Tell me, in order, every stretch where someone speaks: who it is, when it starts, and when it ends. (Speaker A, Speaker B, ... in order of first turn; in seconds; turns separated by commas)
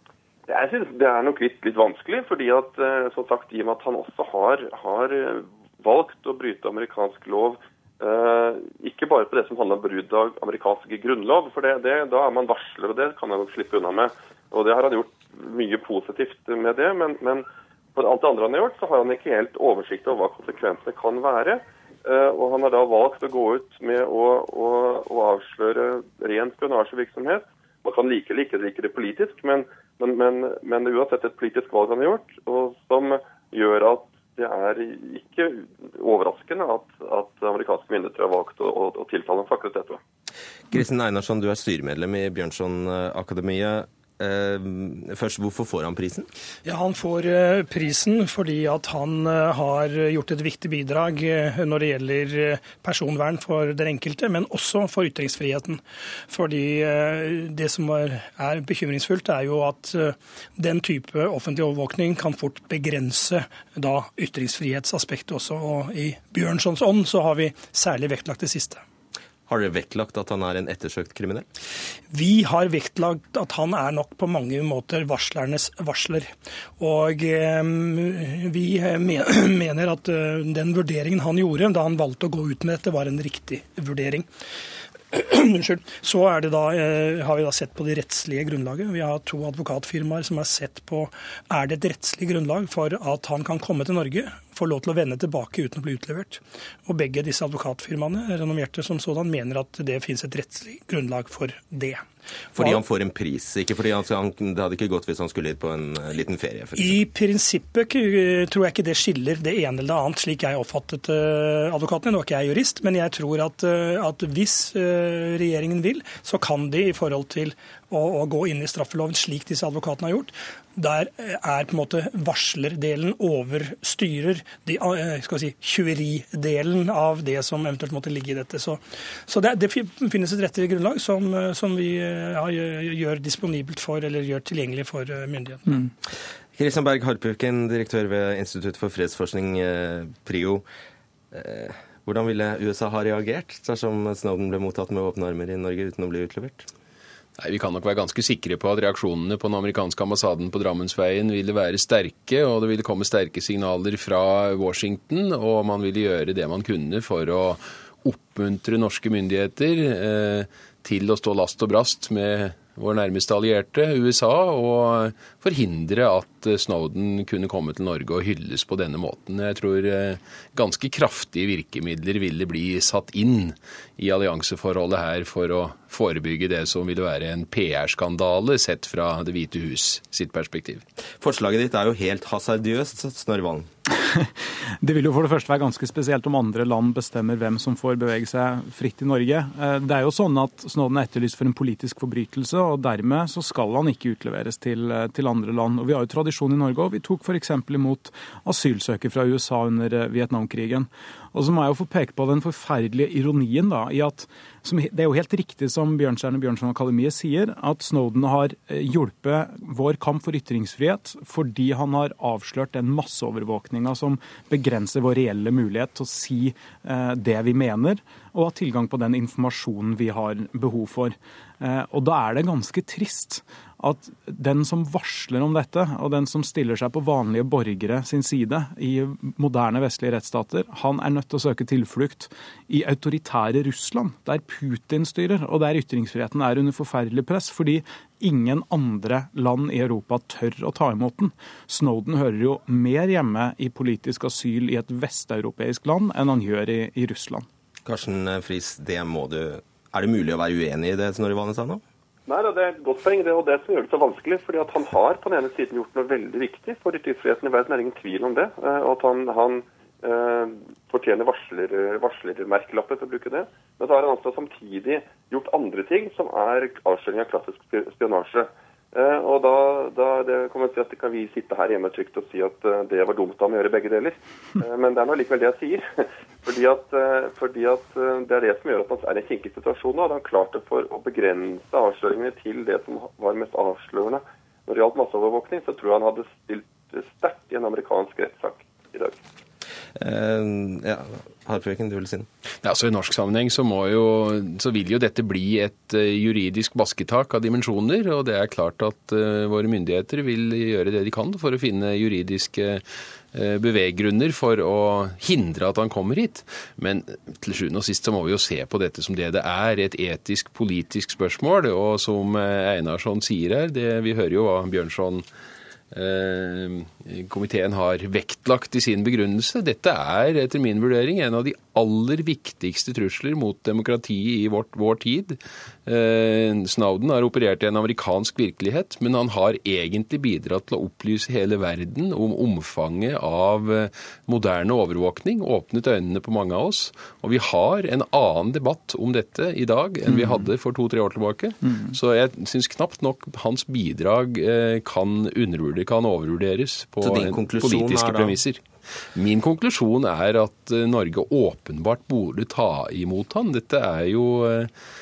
Speaker A: 0.5-40.0, Speaker B: 40.7-46.3, Speaker C: 46.6-68.8, Speaker B: 69.5-71.4, Speaker C: 72.1-84.3, Speaker C: 85.1-102.0, Speaker B: 102.5-107.0, Speaker C: 106.8-135.7, Speaker B: 136.6-140.6, Speaker B: 141.3-146.7, Speaker D: 147.4-180.8, Speaker B: 181.2-183.7, Speaker E: 184.8-247.4, Speaker B: 247.8-251.8, Speaker A: 252.3-289.2, Speaker B: 290.0-292.3, Speaker D: 292.6-315.2, Speaker D: 315.9-348.6, Speaker E: 340.1-340.3, Speaker B: 347.0-348.4, Speaker D: 349.1-354.7